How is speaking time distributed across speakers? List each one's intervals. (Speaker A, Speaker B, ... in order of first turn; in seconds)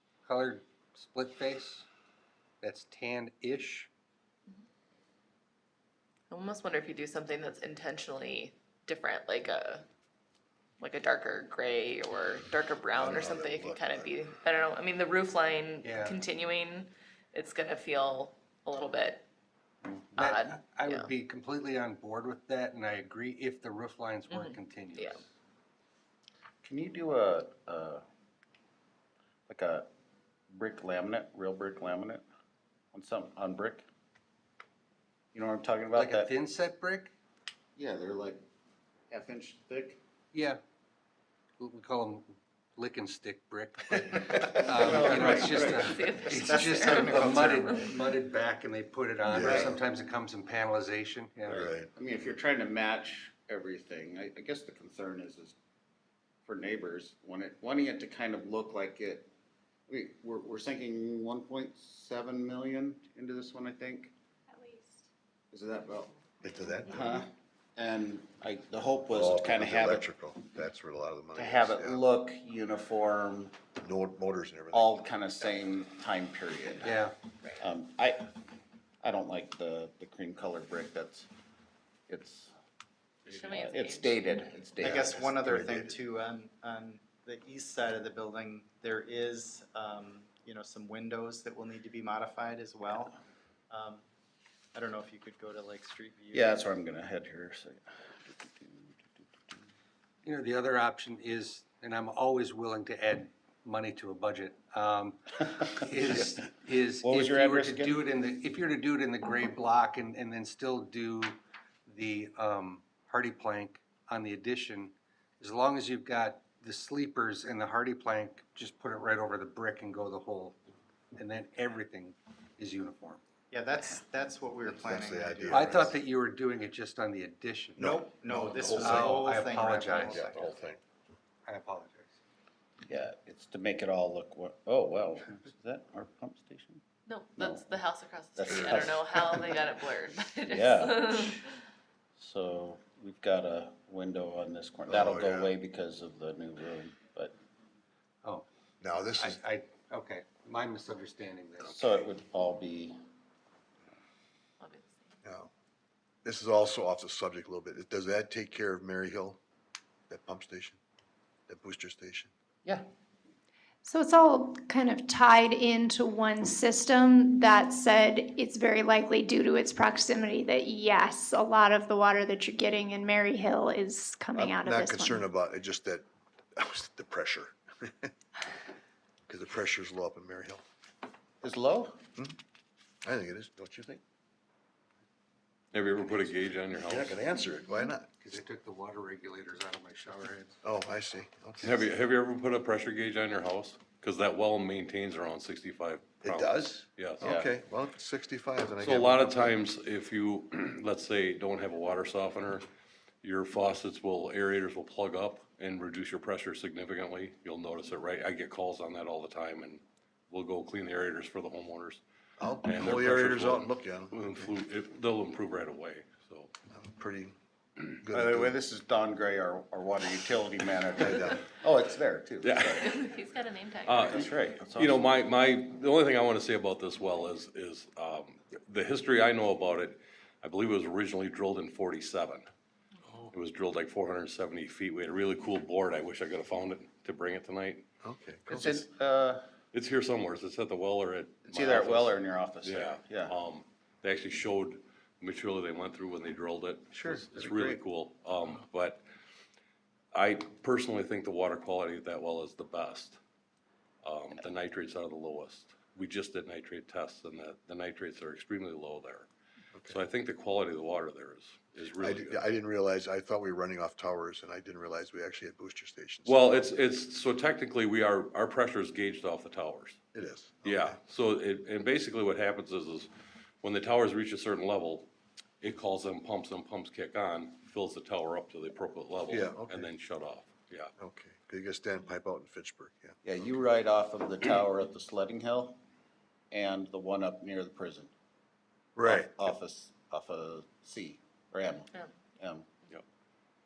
Speaker A: 0.2-1.9, 2.6-3.9, 15.8-16.2, 20.1-25.2, 35.9-37.1, 40.3-40.6, 41.6-51.6, 76.8-77.2, 100.2-120.6, 121.2-123.2, 125.5-127.8, 128.7-130.5, 131.4-132.2, 149.2-152.0, 188.2-190.6
Speaker B: 6.3-9.8, 10.8-19.2, 20.2-21.1, 24.3-25.2, 45.5-47.9, 83.2-84.2, 137.1-141.5, 154.6-155.1, 222.8-224.3, 291.9-292.2
Speaker C: 12.9-14.1, 49.2-49.7, 51.5-51.9, 66.4-67.2, 69.1-72.0, 73.8-75.0, 85.3-86.0, 124.6-126.0, 127.8-129.2, 130.0-130.8, 138.5-138.8, 144.9-145.5, 148.8-149.4, 155.2-155.5, 156.2-159.4, 160.1-160.8, 161.5-162.3, 174.3-178.1, 179.3-180.6, 183.0-184.0, 186.8-188.1, 190.6-191.8, 196.2-199.5, 212.4-214.5, 216.7-217.3, 218.0-218.6, 221.0-221.4, 238.0-238.8, 262.0-266.7, 270.1-271.0, 279.3-279.9, 281.0-283.2, 288.9-289.5
Speaker D: 19.9-20.2, 26.6-28.0, 29.5-29.9, 30.5-32.2, 32.9-33.8, 35.3-36.3, 37.8-38.4, 39.1-40.0, 44.5-46.2, 49.4-49.7, 51.5-55.5, 56.4-59.3, 59.9-64.1, 65.5-66.1, 66.9-70.1, 71.3-73.6, 74.7-77.0, 77.6-78.3, 79.0-81.3, 82.1-82.5, 83.3-85.4, 96.3-99.6, 105.8-106.4, 107.0-108.0, 132.8-136.8, 137.3-137.7, 138.3-139.6, 140.5-141.4, 142.2-147.3, 151.6-153.0, 181.4-182.0, 197.2-197.5, 218.1-222.9, 224.0-225.1, 238.5-239.4, 241.4-243.3, 246.9-247.8, 283.2-285.8, 286.5-288.1, 289.0-292.7
Speaker E: 46.5-47.7, 84.8-93.2, 93.7-94.0, 94.7-96.6, 123.5-125.8, 127.8-130.4
Speaker F: 163.8-175.3
Speaker G: 185.7-187.2, 191.6-197.3, 198.8-202.7, 203.2-212.0, 212.6-216.5, 222.4-222.9, 223.8-232.5, 233.3-237.8, 239.7-249.0, 250.1-253.2, 254.0-259.3, 259.9-262.4, 266.2-270.0, 270.6-273.1, 273.6-275.1, 275.6-280.9